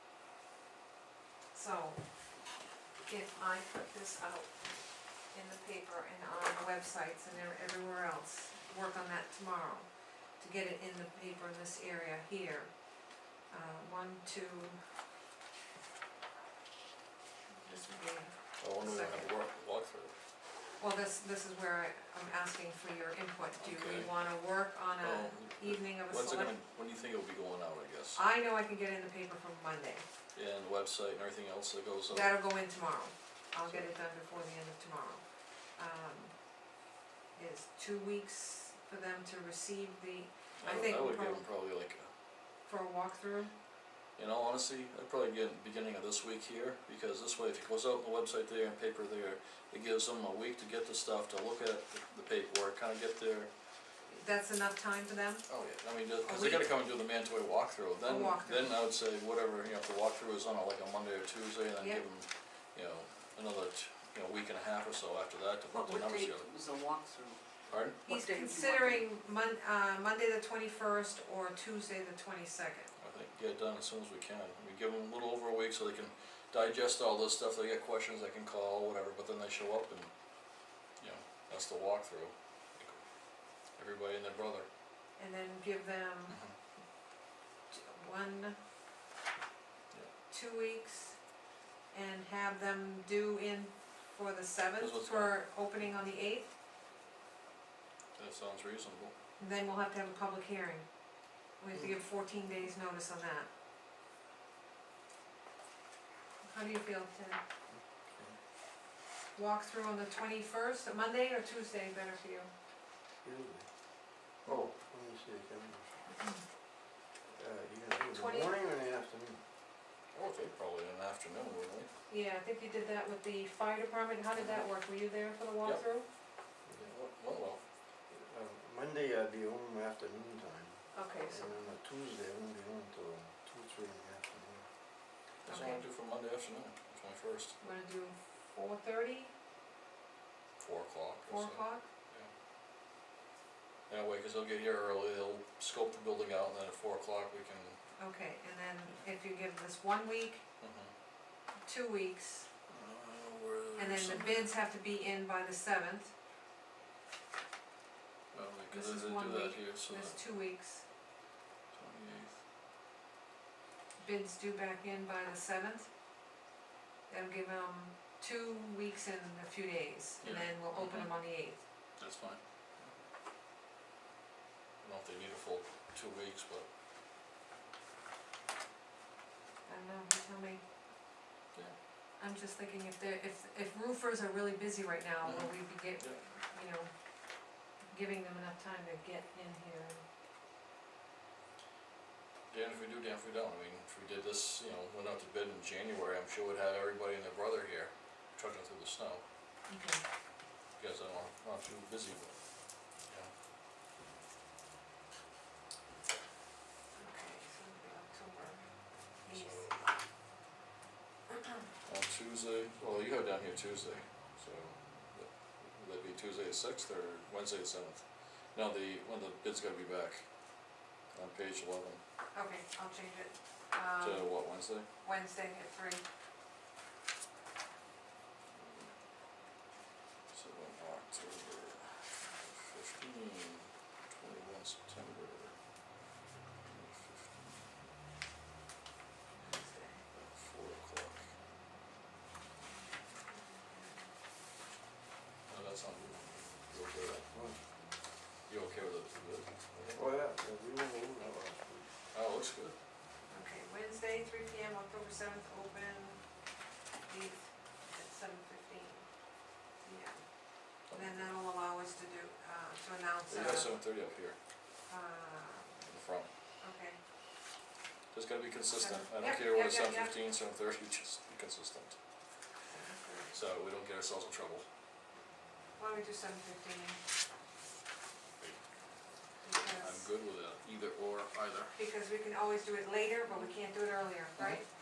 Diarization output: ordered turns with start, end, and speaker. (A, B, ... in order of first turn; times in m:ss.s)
0:01.5-0:02.0 A
0:03.1-0:04.6 A
0:05.3-0:09.9 A
0:10.4-0:12.7 A
0:13.5-0:14.8 A
0:17.6-0:19.3 A
0:18.6-0:20.1 B
0:20.8-0:26.6 A
0:23.6-0:24.1 B
0:25.0-0:28.2 B
0:28.2-0:30.0 A
0:30.4-0:32.4 B
0:32.1-0:35.2 A
0:35.8-0:36.3 A
0:37.4-0:41.4 A
0:40.6-0:42.1 B
0:42.7-0:43.5 A
0:44.2-0:53.5 B
0:54.1-0:55.4 A
0:55.5-1:06.5 B
0:56.2-0:56.7 A
0:58.0-0:58.7 A
1:01.8-1:02.0 A
1:05.7-1:07.4 C
1:07.7-1:08.0 B
1:08.0-1:09.0 C
1:08.1-1:12.9 A
1:13.0-1:20.1 B
1:21.0-1:23.0 B
1:23.8-1:24.7 B
1:25.2-1:26.4 A
1:27.7-1:28.6 A
1:30.3-1:31.2 A
1:31.9-1:36.5 A
1:34.8-1:35.4 B
1:38.2-1:39.1 B
1:39.4-1:40.9 A
1:41.6-1:43.5 A
1:46.4-1:47.4 A
1:49.4-1:52.5 A
1:53.2-1:53.7 D
1:54.5-1:55.8 D
1:56.1-1:56.4 A
1:57.3-1:59.4 D
1:58.1-1:58.5 A
2:00.1-2:01.9 B
2:02.1-2:06.1 A
2:06.8-2:07.6 B
2:08.1-2:14.6 D
2:10.9-2:11.6 A
2:15.4-2:17.6 B
2:15.5-2:15.8 A
2:17.6-2:19.3 A
2:20.6-2:22.3 B
2:21.3-2:21.9 A
2:23.9-2:27.8 B
2:28.0-2:30.4 A
2:30.6-2:30.9 B
2:31.7-2:32.5 A
2:32.7-2:34.5 B
2:33.8-2:36.1 A
2:38.3-2:40.2 B
2:38.7-2:40.8 A
2:41.7-2:42.4 B
2:44.0-2:45.9 A
2:47.1-2:51.6 A
2:50.2-2:51.1 B
2:52.0-2:52.9 B
2:54.8-2:56.7 B
2:59.7-3:00.6 A
3:02.2-3:06.9 A
3:05.2-3:06.2 B
3:07.9-3:10.0 A
3:12.5-3:19.2 B
3:19.7-3:20.0 A
3:20.8-3:22.4 B
3:27.0-3:28.7 A
3:29.2-3:29.9 A
3:29.3-3:29.7 B
3:31.9-3:40.2 B
3:41.1-3:42.0 B
3:42.3-3:44.4 A
3:44.0-3:44.9 B
3:45.0-3:46.0 A
3:48.6-3:48.9 B
3:50.3-3:55.6 B
3:56.6-3:57.6 B
3:59.3-4:00.0 A
4:00.1-4:01.2 B
4:03.3-4:04.1 A
4:05.5-4:07.2 B
4:07.3-4:07.6 D
4:08.5-4:10.0 B
4:10.0-4:11.9 D
4:12.1-4:12.8 B
4:13.3-4:16.2 A
4:17.1-4:19.1 A
4:19.8-4:20.2 A
4:20.9-4:21.2 B
4:20.9-4:23.8 A
4:23.3-4:24.4 B
4:24.9-4:25.9 A
4:25.8-4:26.3 B
4:26.6-4:27.0 A
4:28.1-4:32.0 B
4:28.7-4:30.2 A
4:32.7-4:33.4 A
4:33.3-4:34.7 B
4:35.8-4:37.0 A
4:39.4-4:40.1 A
4:39.7-4:41.8 B
4:41.8-4:44.7 A